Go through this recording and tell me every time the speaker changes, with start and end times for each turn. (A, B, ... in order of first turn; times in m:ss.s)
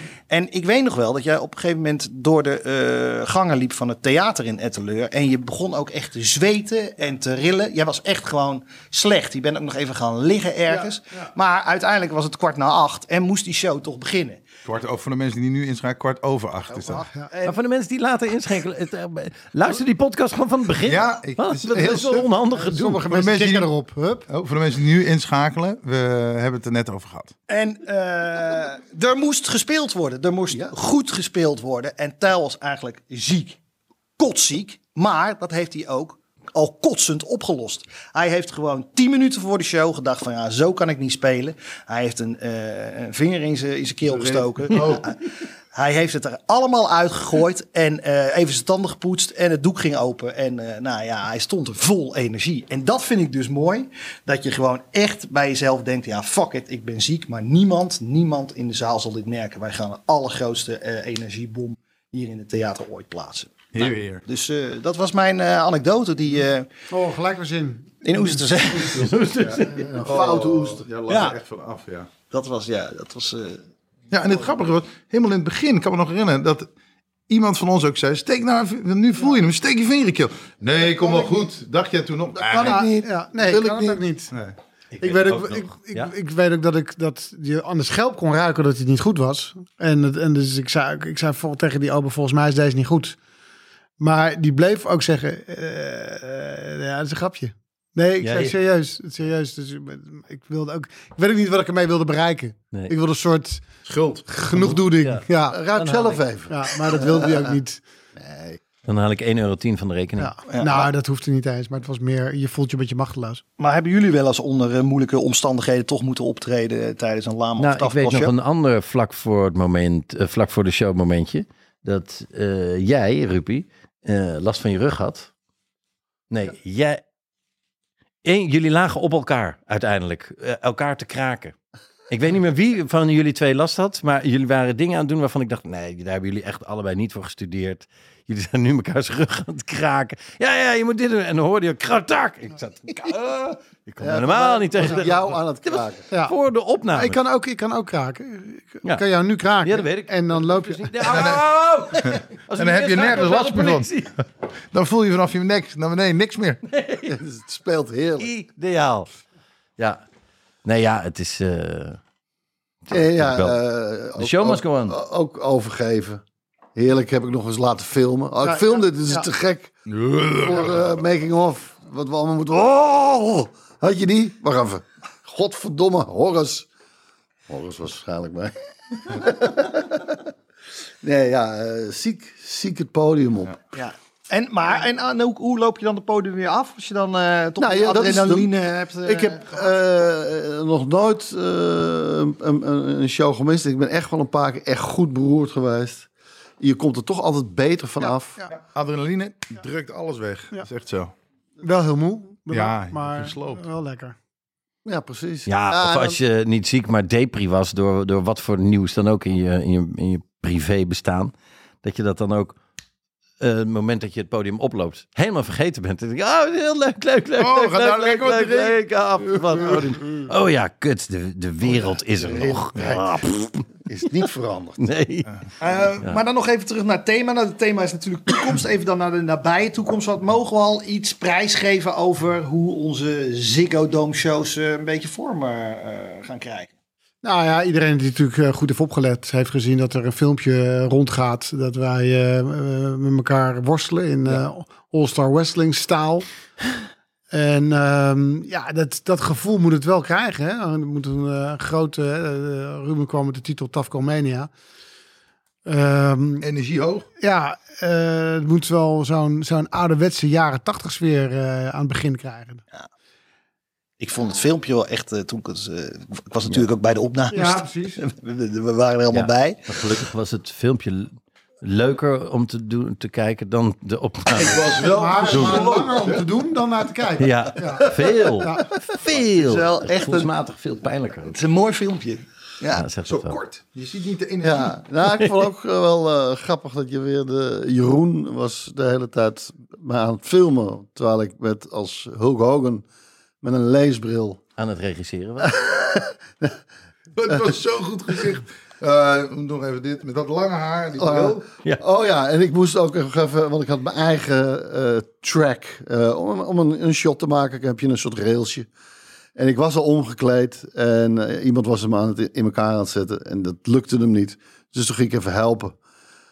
0:00.3-0:14.4 A
0:14.6-0:17.0 B
0:16.7-0:17.6 A
0:17.4-0:23.0 C
0:20.8-0:22.3 B
0:22.5-0:24.2 D
0:23.0-0:23.7 B
0:24.3-0:27.3 B
0:27.5-0:33.6 A
0:34.2-1:06.7 A
0:44.2-0:45.0 B
1:03.7-1:04.2 B
1:06.9-1:07.9 D
1:08.0-1:09.1 A
1:08.9-1:12.1 B
1:09.0-1:09.8 C
1:09.7-1:10.8 E
1:11.1-1:11.4 A
1:12.3-1:13.6 A
1:14.1-1:16.7 B
1:17.3-1:22.9 B
1:22.3-1:24.0 E
1:22.6-1:24.3 D
1:24.3-1:24.6 B
1:24.9-1:26.1 C
1:25.0-1:33.2 D
1:34.0-1:43.6 D
1:38.2-1:38.5 C
1:43.8-1:44.3 B
1:44.3-1:45.6 D
1:44.6-1:46.2 C
1:45.5-1:47.6 E
1:46.5-1:47.8 D
1:48.2-1:48.6 E
1:48.8-1:50.3 C
1:50.2-1:53.4 D
1:50.5-1:50.9 A
1:53.6-1:58.3 A
1:57.6-2:05.3 C
2:06.3-2:07.0 C
2:08.2-2:11.5 C
2:12.1-2:27.2 C
2:24.0-2:26.0 E
2:26.1-2:26.4 D
2:26.9-2:31.0 D
2:29.6-2:34.1 C
2:31.0-2:31.4 B
2:32.0-2:36.6 B
2:36.7-2:37.2 C
2:37.0-2:38.3 E
2:38.2-2:39.1 C
2:40.6-2:42.0 C
2:42.9-2:43.6 C
2:42.9-2:46.2 E
2:44.2-2:45.0 C
2:46.7-2:49.7 E
2:48.4-2:49.2 D
2:49.9-2:50.8 B
2:50.3-2:56.7 E
2:57.5-2:58.5 E
2:59.0-3:00.2 E
3:01.0-3:03.5 E
3:03.7-3:09.6 A
3:07.6-3:16.1 E
3:16.6-3:18.4 E
3:18.0-3:18.5 D
3:18.6-3:21.1 B
3:21.6-3:24.2 D
3:22.5-3:23.6 B
3:24.8-3:26.2 E
3:25.5-3:32.6 C
3:33.4-3:43.6 C
3:37.4-3:39.8 B
3:42.2-3:43.2 E
3:43.8-3:44.9 E
3:44.8-3:45.3 C
3:45.6-3:56.7 A
3:57.2-4:06.2 D
4:07.3-4:14.5 D
4:15.6-4:16.5 D
4:16.4-4:17.1 B
4:17.2-4:22.6 D
4:24.0-4:29.9 A
4:27.3-4:28.0 D
4:29.1-4:35.6 C
4:34.3-4:36.2 B
4:34.8-4:38.7 D
4:37.2-4:41.4 C
4:39.1-4:40.3 A
4:41.3-4:42.8 A
4:42.7-4:43.4 C
4:43.0-4:44.7 B
4:44.4-4:52.8 E
4:53.4-4:54.4 E
4:54.6-4:55.6 C
4:55.4-4:56.6 E
4:57.1-5:01.4 B
5:01.0-5:08.7 E
5:09.4-5:15.8 E